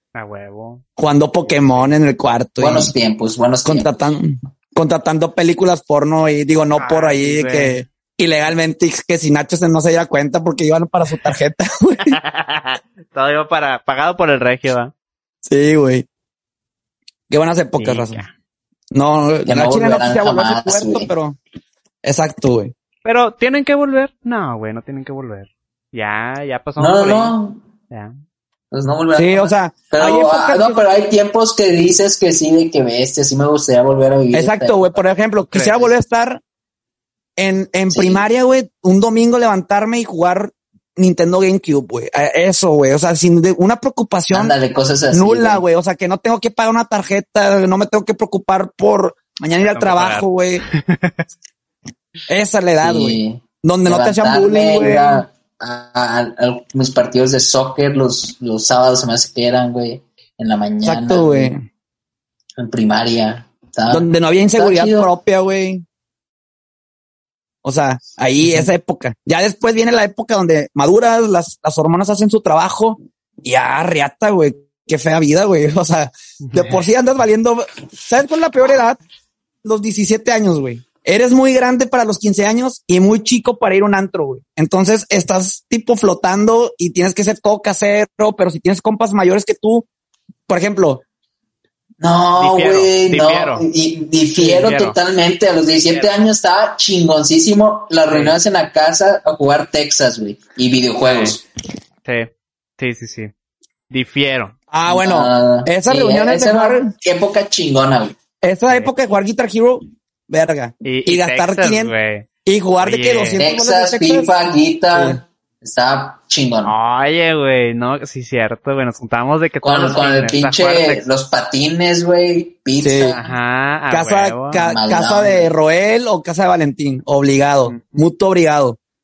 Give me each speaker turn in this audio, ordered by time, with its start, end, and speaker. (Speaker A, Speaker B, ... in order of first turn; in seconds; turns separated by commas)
Speaker A: 0.1-0.8, Speaker B: 1.0-2.9, Speaker A: 1.4-1.9, Speaker C: 2.6-3.9, Speaker B: 3.6-12.2, Speaker A: 6.8-7.8, Speaker A: 12.1-14.9, Speaker B: 15.5-16.1, Speaker B: 17.3-18.2, Speaker A: 17.8-18.3, Speaker B: 18.9-21.4, Speaker C: 19.5-21.1, Speaker B: 22.0-22.7, Speaker A: 23.1-27.3, Speaker C: 26.8-27.6, Speaker C: 28.7-35.0, Speaker B: 29.1-30.8, Speaker B: 34.3-36.4, Speaker A: 35.5-35.9, Speaker B: 37.4-44.6, Speaker C: 37.9-38.2, Speaker C: 44.3-45.6, Speaker B: 45.1-50.6, Speaker A: 49.6-51.2, Speaker B: 52.3-55.2, Speaker C: 52.8-61.5, Speaker B: 60.8-61.6, Speaker C: 62.6-65.1, Speaker B: 63.9-65.8, Speaker B: 67.6-79.0, Speaker A: 68.4-68.7, Speaker A: 76.4-76.8, Speaker B: 79.6-89.9, Speaker B: 90.5-91.0, Speaker C: 92.0-101.4, Speaker A: 92.4-93.7, Speaker A: 94.4-95.0, Speaker A: 98.1-98.4, Speaker A: 101.0-101.4, Speaker A: 102.0-103.3, Speaker A: 103.9-104.5, Speaker B: 104.7-106.9, Speaker C: 104.9-108.2, Speaker B: 108.4-111.9, Speaker A: 110.8-112.3, Speaker B: 112.5-114.3, Speaker A: 112.8-113.4, Speaker C: 113.4-116.7, Speaker B: 114.9-115.2, Speaker A: 116.6-121.0, Speaker C: 119.6-123.2, Speaker B: 122.8-123.2, Speaker A: 123.1-124.6, Speaker B: 123.9-128.8, Speaker C: 124.6-125.5, Speaker A: 127.7-128.0